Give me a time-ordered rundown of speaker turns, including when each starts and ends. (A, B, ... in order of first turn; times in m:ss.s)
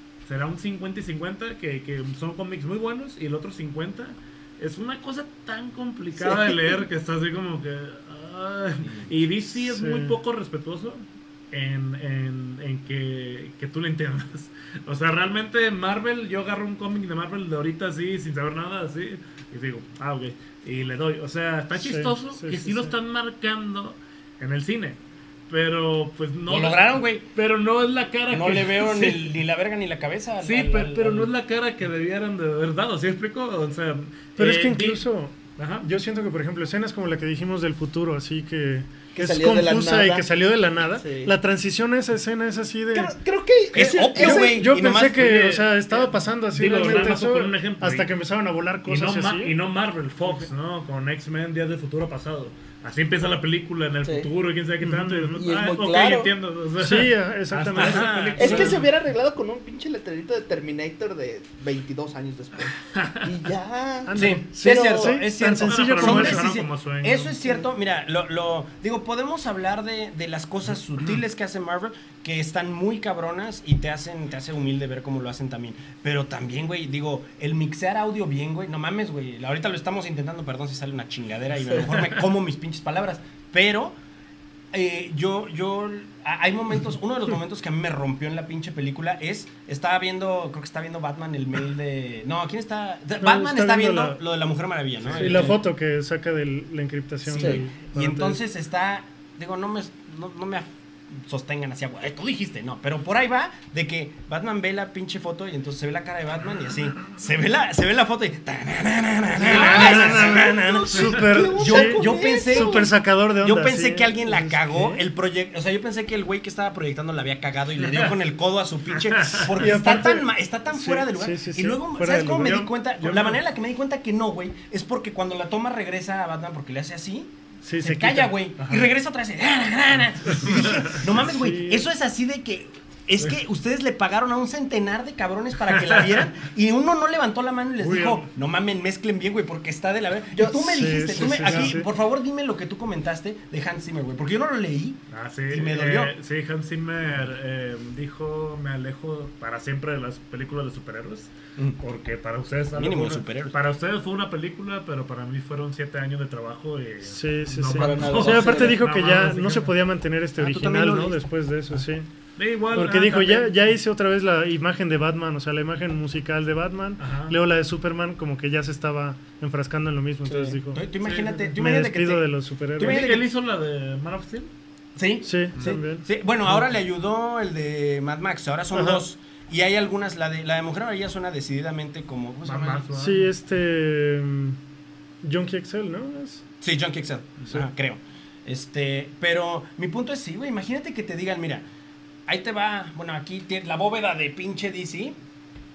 0:00.2-0:29.2 A
0:06.2-0:06.6 B
0:08.8-0:09.1 C
0:09.6-0:10.2 D
0:21.8-0:22.9 D
0:26.5-0:27.2 C
0:28.3-0:31.3 C
0:30.4-0:35.0 A
0:34.4-0:43.1 D
0:35.6-0:35.9 A
0:39.1-0:40.2 B
0:41.0-0:41.3 B
0:42.9-0:44.5 B
0:43.7-0:45.2 C
0:44.2-0:49.5 D
0:45.0-0:48.1 A
0:48.8-0:58.9 A
0:54.8-0:55.4 D
0:55.4-0:56.3 B
0:56.8-0:58.8 D
0:57.8-0:58.7 C
0:58.4-1:05.2 B
1:02.9-1:03.2 A
1:04.0-1:06.4 D
1:04.1-1:24.0 C
1:05.5-1:07.3 A
1:24.7-1:35.6 C
1:33.2-1:34.2 D
1:35.0-1:35.5 A
1:35.1-1:38.4 D
1:37.3-1:52.9 C
1:37.3-1:37.6 B
1:49.4-1:55.0 D
1:49.5-1:50.3 A
1:49.5-1:52.8 B
1:53.4-2:26.1 C
1:57.8-1:58.1 A
1:59.0-1:59.5 A
1:59.6-2:02.7 D
2:02.4-2:03.4 A
2:07.6-2:08.4 D
2:08.6-2:08.9 A
2:10.3-2:11.9 D
2:10.4-2:11.0 A
2:15.7-2:16.3 A
2:17.8-2:18.3 A
2:20.3-2:20.7 B
2:20.5-2:21.9 D
2:25.1-2:39.7 A
2:32.8-2:33.5 C
2:37.0-2:42.1 D
2:37.8-2:38.6 C
2:38.0-2:38.8 B
2:40.4-2:41.8 C
2:42.4-2:43.7 A
2:42.7-2:50.9 D
2:47.0-2:47.3 A
2:50.3-2:50.5 B
2:50.7-2:53.2 C
2:51.0-2:51.5 A
2:51.6-2:53.0 D
2:52.8-2:54.5 A
2:55.0-3:02.8 C
2:55.2-2:56.0 D
2:58.7-2:59.0 D
3:02.4-3:03.3 A
3:03.0-3:04.6 D
3:05.2-3:06.4 D
3:06.6-3:11.6 C
3:12.3-3:15.1 C